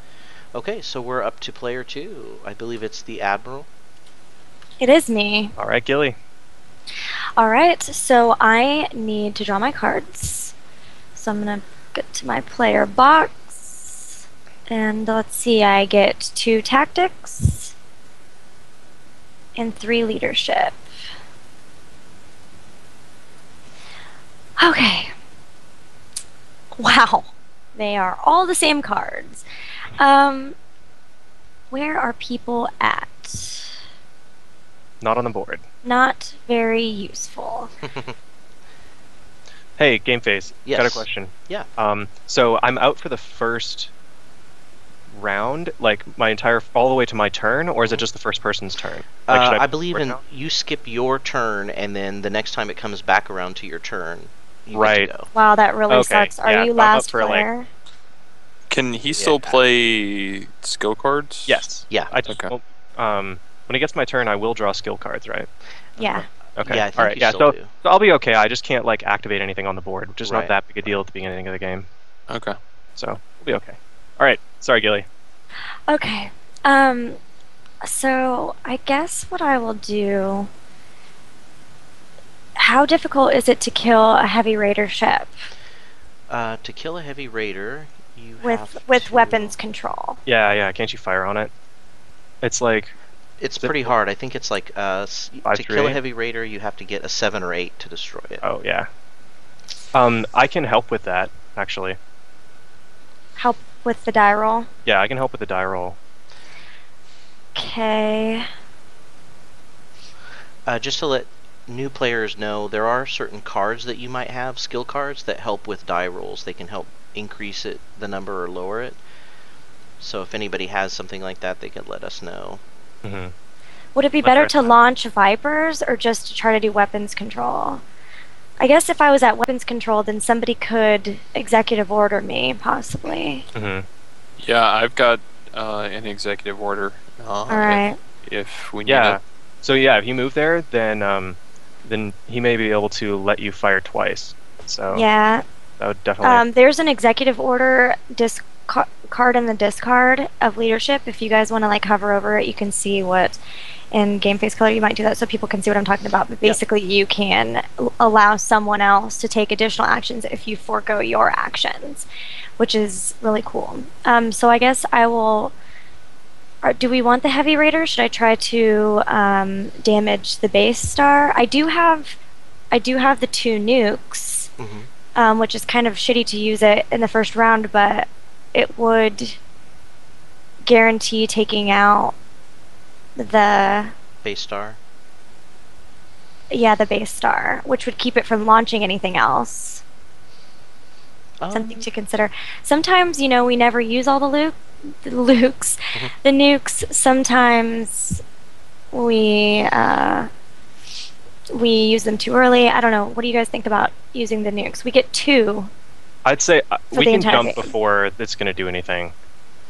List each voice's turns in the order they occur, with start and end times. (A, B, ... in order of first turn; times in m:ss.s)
0:00.5-0:03.7 A
0:04.8-0:05.5 B
0:05.6-0:06.2 C
0:07.4-0:10.5 B
0:11.2-0:14.1 B
0:14.7-0:17.7 B
0:19.6-0:20.8 B
0:24.6-0:25.1 B
0:26.8-0:30.6 B
0:31.7-0:33.7 B
0:35.0-0:35.6 C
0:35.8-0:37.7 B
0:37.9-0:38.2 A
0:39.8-0:43.9 C
0:40.7-0:41.7 A
0:45.1-0:50.2 C
0:49.3-0:55.3 A
0:54.7-0:55.1 C
0:55.3-0:57.7 B
0:55.9-0:57.5 C
0:58.7-1:01.7 D
0:59.2-0:59.6 A
1:01.5-1:05.5 C
1:06.0-1:06.3 B
1:06.0-1:07.7 A
1:06.6-1:11.9 C
1:10.2-1:10.9 A
1:12.3-1:12.6 D
1:13.0-1:15.1 C
1:15.9-1:17.2 B
1:17.8-1:20.5 B
1:22.6-1:25.3 B
1:26.3-1:29.5 A
1:28.4-1:30.2 B
1:30.3-1:31.5 C
1:32.4-1:33.0 C
1:33.4-1:38.4 A
1:33.6-1:34.0 C
1:35.4-1:36.0 C
1:38.4-1:38.9 C
1:39.9-1:42.0 C
1:43.4-1:44.7 B
1:44.9-1:46.0 C
1:47.6-1:48.5 B
1:50.7-1:59.0 A
2:00.0-2:02.6 A
2:03.0-2:03.3 C
2:04.0-2:07.8 B
2:04.2-2:04.8 C
2:08.6-2:13.5 B
2:13.5-2:13.9 C
2:14.4-2:19.2 D
2:17.5-2:18.0 B
2:18.9-2:25.1 C
2:24.9-2:25.4 B
2:25.8-2:26.4 C
2:26.2-2:33.4 B
2:33.9-2:42.1 B
2:42.6-2:45.5 B
2:46.6-2:52.2 B
2:52.7-2:54.5 B
2:54.6-2:54.9 A
2:55.2-2:59.4 B
3:00.7-3:02.2 B
3:03.2-3:03.9 B
3:04.2-3:04.8 A
3:06.5-3:09.8 B
3:11.4-3:11.8 A
3:11.5-3:18.2 B
3:18.9-3:20.3 B
3:21.5-3:25.7 B
3:26.2-3:29.1 C
3:26.9-3:27.7 B